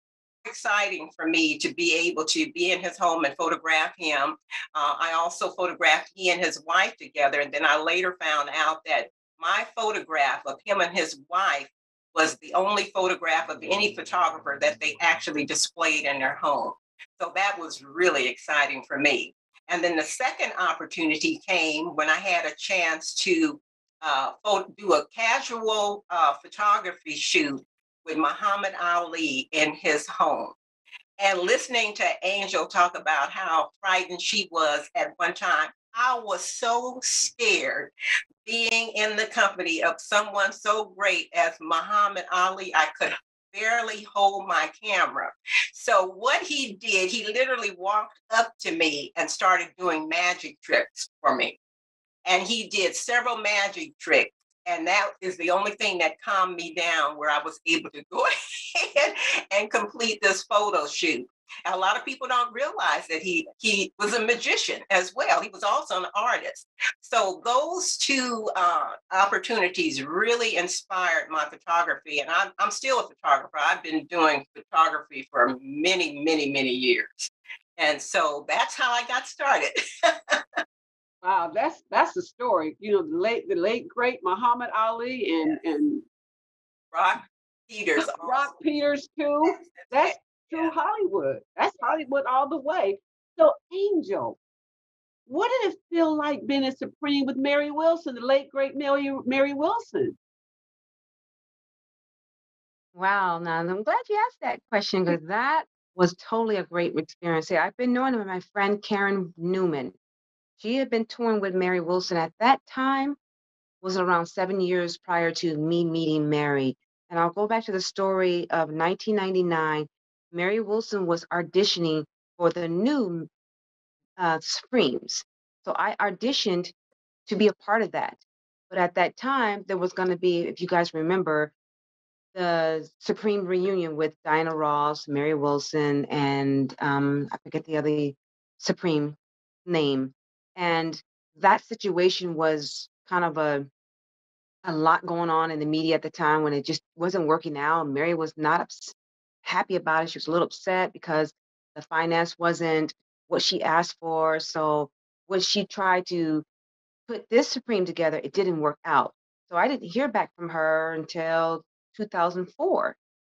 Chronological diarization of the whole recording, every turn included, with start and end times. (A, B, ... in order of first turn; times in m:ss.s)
0:00.4-0:30.6 A
0:31.2-0:37.9 A
0:38.4-0:51.6 A
0:52.2-1:19.8 A
1:21.2-1:26.0 B
1:26.9-1:28.5 A
1:28.0-1:34.4 B
1:29.5-1:30.7 A
1:35.3-1:40.2 B
1:42.9-1:50.0 C
1:50.6-1:53.2 C
1:53.8-2:03.3 C
2:04.2-2:06.7 C
2:07.3-2:11.5 C
2:12.3-2:23.7 C
2:24.6-2:36.4 C
2:37.1-2:43.0 C